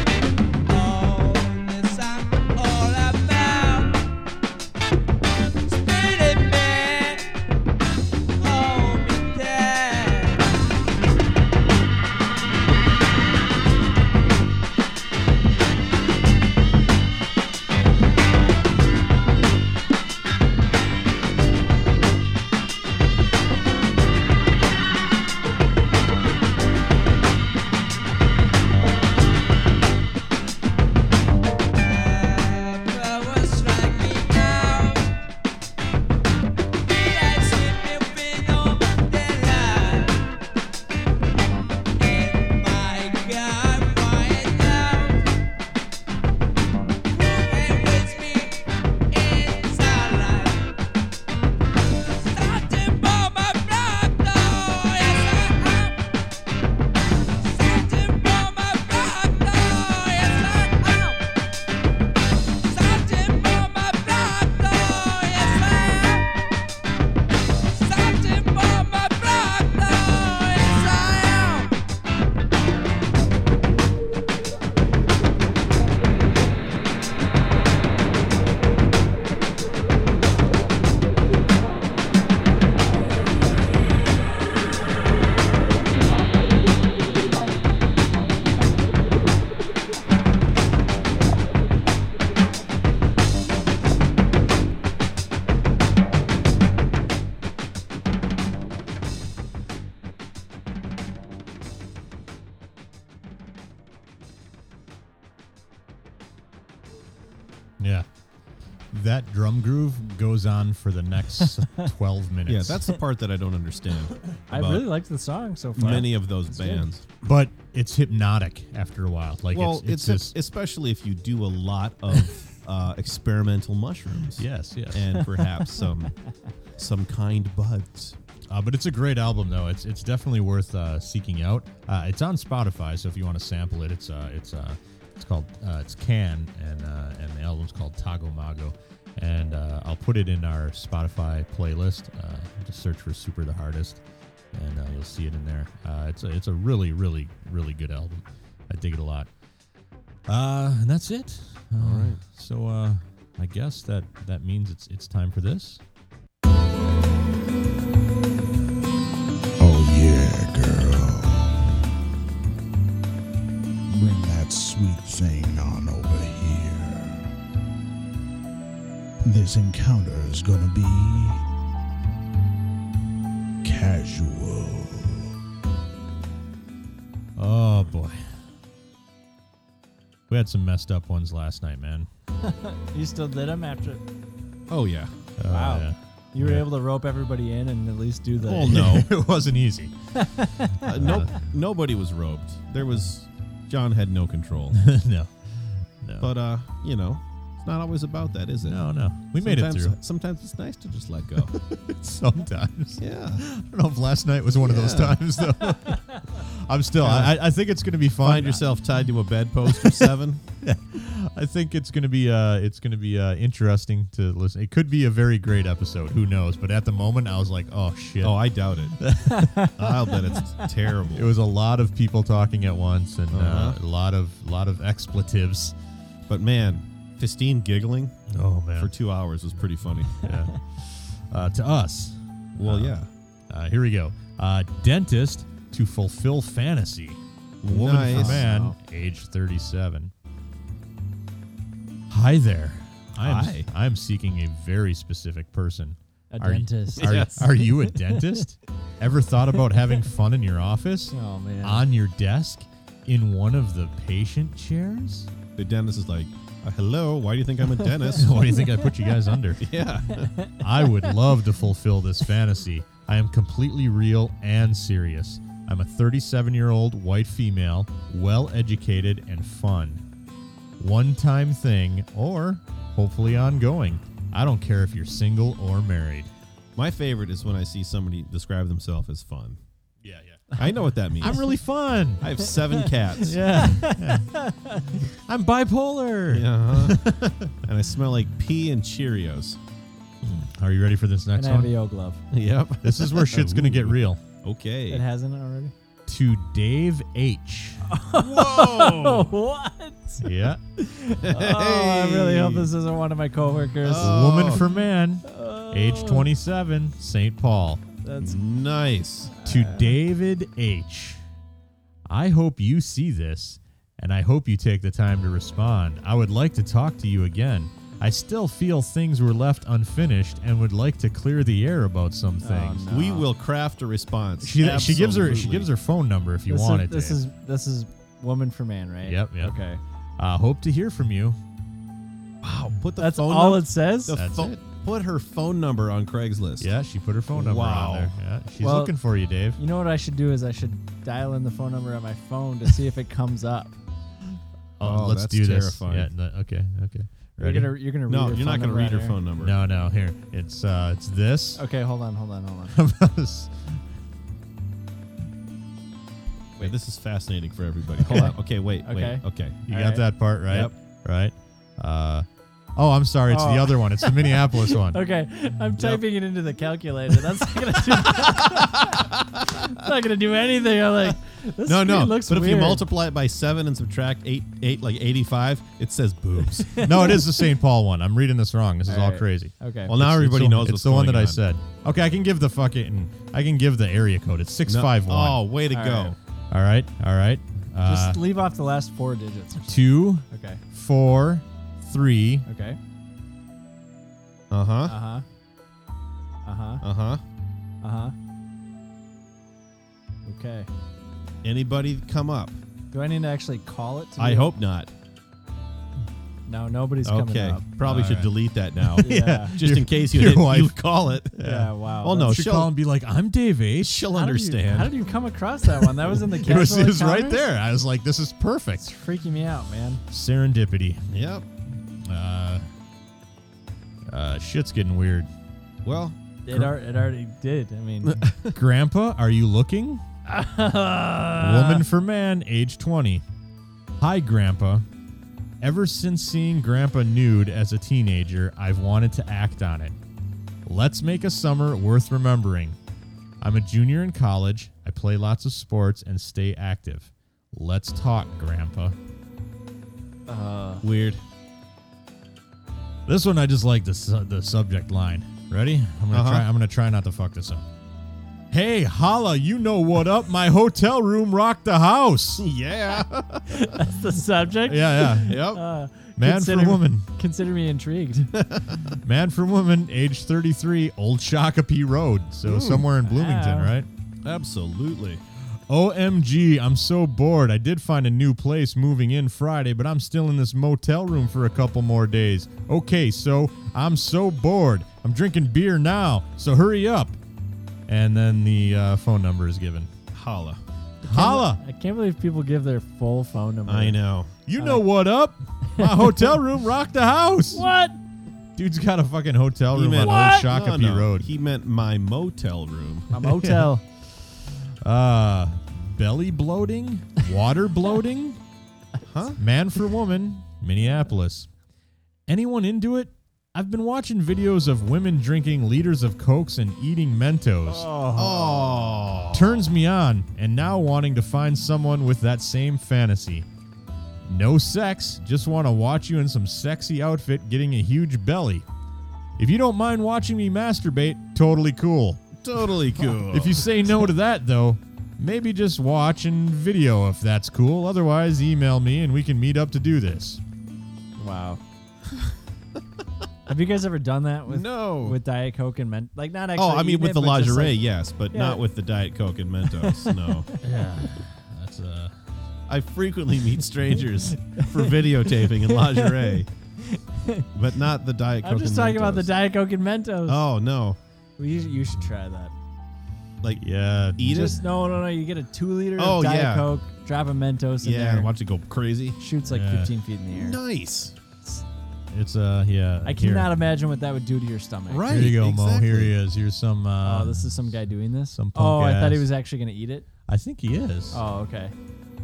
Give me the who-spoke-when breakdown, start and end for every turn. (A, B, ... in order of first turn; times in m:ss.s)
0:00.6-0:04.0 A
0:05.6-0:07.3 A
0:08.4-0:10.5 A
0:31.8-0:35.1 A
0:36.8-0:40.2 A
0:42.0-0:45.2 A
0:47.1-0:48.6 A
0:49.1-0:50.7 A
0:52.2-0:56.0 A
0:57.4-1:01.2 A
1:02.6-1:06.3 A
1:07.7-1:11.7 A
1:47.8-1:48.0 B
1:48.9-1:52.8 B
1:51.4-1:51.8 C
1:52.5-1:54.9 D
1:54.5-1:56.9 C
1:55.8-1:57.1 D
1:57.2-2:00.3 B
1:59.5-2:06.2 D
2:04.4-2:05.4 B
2:06.8-2:08.2 D
2:08.5-2:29.3 B
2:30.3-2:35.8 B
2:31.8-2:32.2 D
2:39.6-2:41.7 E
2:43.9-2:47.3 E
2:49.2-2:51.4 E
2:53.6-2:55.3 E
2:57.4-2:58.2 B
3:00.3-3:02.1 B
3:02.4-3:04.0 C
3:04.7-3:05.1 D
3:05.4-3:06.7 B
3:05.5-3:08.9 C
3:08.4-3:09.1 D
3:08.7-3:09.9 B
3:10.1-3:10.9 C
3:10.8-3:14.8 D
3:10.9-3:11.3 B
3:14.7-3:16.3 B
3:16.2-3:18.8 D
3:18.6-3:20.0 B
3:19.4-3:21.5 D
3:21.5-3:28.9 B
3:23.0-3:23.4 D
3:24.6-3:25.2 D
3:27.0-3:27.4 D
3:28.2-3:30.4 D
3:29.7-3:30.1 B
3:30.6-3:39.8 B
3:38.2-3:39.0 D
3:39.3-3:39.8 C
3:39.7-3:41.3 D
3:41.1-3:45.7 B
3:43.3-3:43.8 D
3:46.3-3:48.2 D
3:48.3-3:48.9 B
3:48.7-3:50.2 D
3:50.2-3:53.0 B
3:52.6-3:53.1 D
3:53.5-4:00.1 B
3:57.6-3:58.4 D
3:58.1-3:58.8 C
4:02.1-4:15.3 B
4:03.2-4:03.7 D
4:06.3-4:08.4 C
4:07.0-4:07.3 D
4:11.1-4:11.8 C
4:15.5-4:18.4 D
4:18.2-4:19.8 B
4:19.6-4:20.3 D
4:20.2-4:20.6 C
4:20.6-4:30.0 B
4:30.8-4:36.3 B
4:36.8-4:39.6 D
4:40.0-4:42.3 B
4:40.6-4:41.5 D
4:42.2-4:43.4 D
4:43.2-4:44.5 B
4:43.5-4:45.0 C
4:45.1-4:47.6 B
4:46.3-4:47.1 D
4:47.6-4:49.6 D
4:50.2-4:51.7 B
4:51.4-4:52.2 C
4:52.3-4:55.0 D
4:52.8-4:54.2 B
4:54.9-4:55.7 C
4:56.1-4:57.8 B
4:57.9-5:00.2 C
4:58.2-4:59.3 D
5:00.2-5:00.6 B
5:00.8-5:06.3 C
5:01.2-5:02.7 D
5:03.8-5:04.6 D
5:04.0-5:07.8 B
5:08.0-5:08.4 C
5:08.2-5:09.3 D
5:09.3-5:09.9 C
5:09.4-5:11.2 B
5:12.1-5:22.8 B
5:22.4-5:23.3 C
5:22.9-5:25.7 D
5:24.4-5:27.2 B
5:26.5-5:29.8 C
5:29.0-5:29.6 B
5:30.2-5:31.4 B
5:32.4-5:36.7 D
5:33.0-5:34.2 C
5:34.1-5:34.5 B
5:36.6-5:39.6 B
5:37.3-5:38.1 D
5:38.6-5:39.0 C
5:39.6-5:43.8 C
5:44.8-5:47.7 B
5:44.8-5:46.1 D
5:47.4-5:49.2 C
5:48.1-5:49.6 D
5:49.4-5:51.6 B
5:51.6-5:52.7 C
5:52.7-5:53.8 B
5:56.6-5:59.6 D
5:58.0-6:00.0 C
5:59.7-6:02.2 B
6:02.8-6:05.0 B
6:03.3-6:12.8 C
6:05.8-6:06.0 D
6:08.4-6:09.4 D
6:11.6-6:16.9 D
6:16.7-6:17.2 C
6:16.8-6:25.4 B
6:18.8-6:19.9 C
6:19.9-6:21.4 D
6:24.6-6:26.2 D
6:25.7-6:26.2 C
6:26.5-6:28.2 B
6:27.8-6:30.6 C
6:29.6-6:32.5 B
6:32.4-6:32.8 C
6:34.5-6:34.9 D
6:34.9-6:35.2 C
6:36.4-6:36.8 C
6:36.8-6:37.2 D
6:37.8-6:38.1 C
6:40.2-6:40.7 C
6:41.4-6:42.6 D
6:42.9-6:44.5 C
6:44.2-6:44.9 D
6:46.5-6:47.6 C
6:47.0-6:51.4 D
6:47.8-6:50.8 B
6:49.0-6:49.6 C
6:51.3-6:54.1 B
6:51.4-6:52.4 C
6:52.0-6:52.7 D
6:53.8-6:55.0 D
6:54.1-6:57.4 C
6:56.4-6:58.9 B
6:58.8-7:00.0 C
7:00.1-7:01.0 B
7:01.1-7:01.4 D
7:02.0-7:02.7 B
7:04.1-7:05.3 B
7:05.8-7:06.7 D
7:06.4-7:08.2 C
7:08.0-7:08.6 D
7:08.5-7:10.0 B
7:10.3-7:11.8 C
7:11.4-7:13.2 B
7:14.0-7:14.8 B
7:15.6-7:20.0 B
7:20.6-7:22.8 B
7:23.4-7:29.0 B
7:30.3-7:30.8 C
7:30.8-7:31.2 D
7:33.1-7:37.6 B
7:36.1-7:36.4 D
7:38.5-7:42.5 B
7:42.4-7:43.7 D
7:43.5-7:48.3 C
7:44.6-7:45.4 B
7:45.2-7:45.6 D
7:46.2-7:47.1 B
7:48.3-7:48.8 D
7:49.0-7:53.9 B
7:52.4-7:52.8 D
7:53.0-7:53.7 C
7:54.2-7:55.2 D
7:55.7-8:07.2 B
8:07.9-8:09.9 B
8:10.1-8:10.6 D
8:11.0-8:14.0 C
8:11.1-8:11.6 B
8:13.7-8:14.3 D
8:14.4-8:17.7 B
8:14.6-8:14.8 C
8:15.7-8:16.3 C
8:17.5-8:18.0 C
8:18.6-8:21.3 B
8:19.7-8:23.1 D
8:20.0-8:20.5 C
8:23.1-8:23.8 C
8:23.2-8:28.4 B
8:29.0-8:29.4 D
8:29.4-8:31.5 B
8:32.3-8:37.9 B
8:37.6-8:38.8 C
8:38.1-8:39.7 D
8:39.3-8:43.5 B
8:44.2-8:48.6 B
8:49.4-8:52.2 B
8:52.4-8:53.7 D
8:53.3-9:00.4 B
9:01.2-9:01.6 C
9:03.5-9:08.6 C
9:04.5-9:05.2 D
9:06.6-9:10.5 D
9:09.9-9:10.3 C
9:10.6-9:12.1 B
9:12.7-9:16.5 D
9:14.6-9:14.8 C
9:15.5-9:16.4 C
9:16.9-9:17.4 C
9:17.5-9:19.3 D
9:18.4-9:20.4 C
9:20.2-9:21.0 D
9:21.4-9:22.5 C
9:23.6-9:24.3 B
9:24.2-9:24.6 D
9:24.2-9:28.3 C
9:26.0-9:26.7 D
9:27.8-9:29.2 D
9:29.2-9:30.6 C
9:29.4-9:29.9 B
9:30.3-9:31.1 D
9:32.1-9:33.5 B
9:33.0-9:35.1 C
9:34.9-9:36.2 D
9:35.1-9:37.8 B
9:37.0-9:40.1 C
9:38.3-9:39.3 B
9:40.3-9:41.2 B
9:41.1-9:41.7 C